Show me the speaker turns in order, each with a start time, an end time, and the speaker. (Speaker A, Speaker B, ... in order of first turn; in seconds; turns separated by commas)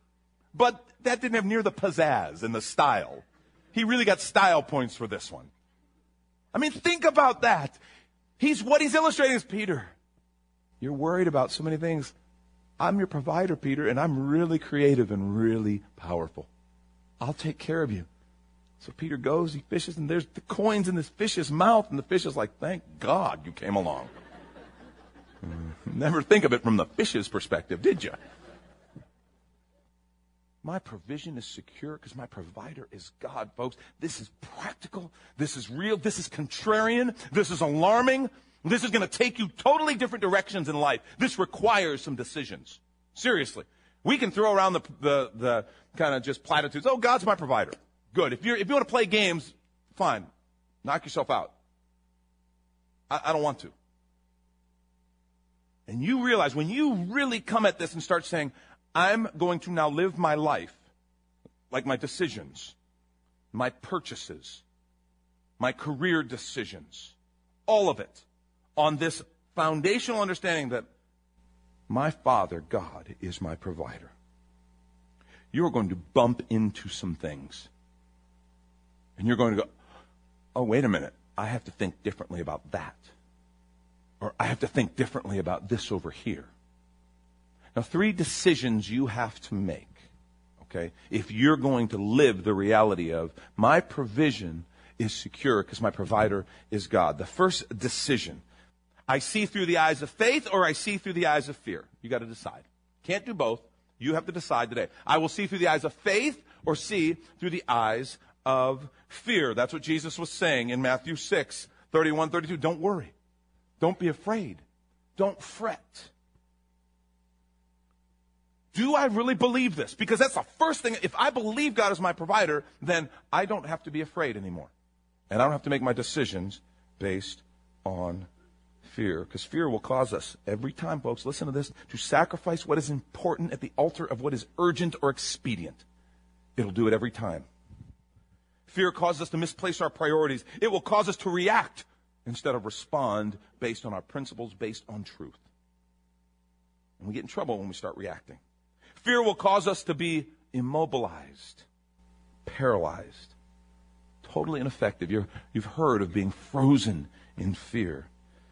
Speaker A: 0.5-5.5, Speaker A: 6.5-7.8, Speaker A: 8.4-9.9, Speaker A: 10.8-12.1, Speaker A: 12.8-16.5, Speaker A: 17.2-18.1, Speaker A: 18.8-24.1, Speaker A: 25.4-28.2, Speaker A: 30.6-50.3, Speaker A: 50.8-51.5, Speaker A: 53.1-53.7, Speaker A: 55.9-60.8, Speaker A: 61.7-62.7, Speaker A: 63.5-64.6, Speaker A: 65.6-67.1, Speaker A: 67.7-70.9, Speaker A: 71.9-74.1, Speaker A: 75.5-77.7, Speaker A: 79.2-79.7, Speaker A: 80.5-83.1, Speaker A: 84.2-86.5, Speaker A: 87.7-90.0, Speaker A: 90.6-98.4, Speaker A: 99.1-113.1, Speaker A: 113.8-114.6, Speaker A: 115.2-116.1, Speaker A: 118.7-124.7, Speaker A: 125.3-128.3, Speaker A: 128.8-135.8, Speaker A: 136.6-137.5, Speaker A: 138.7-145.4, Speaker A: 147.0-148.4, Speaker A: 148.9-151.7, Speaker A: 152.4-153.3, Speaker A: 154.2-158.1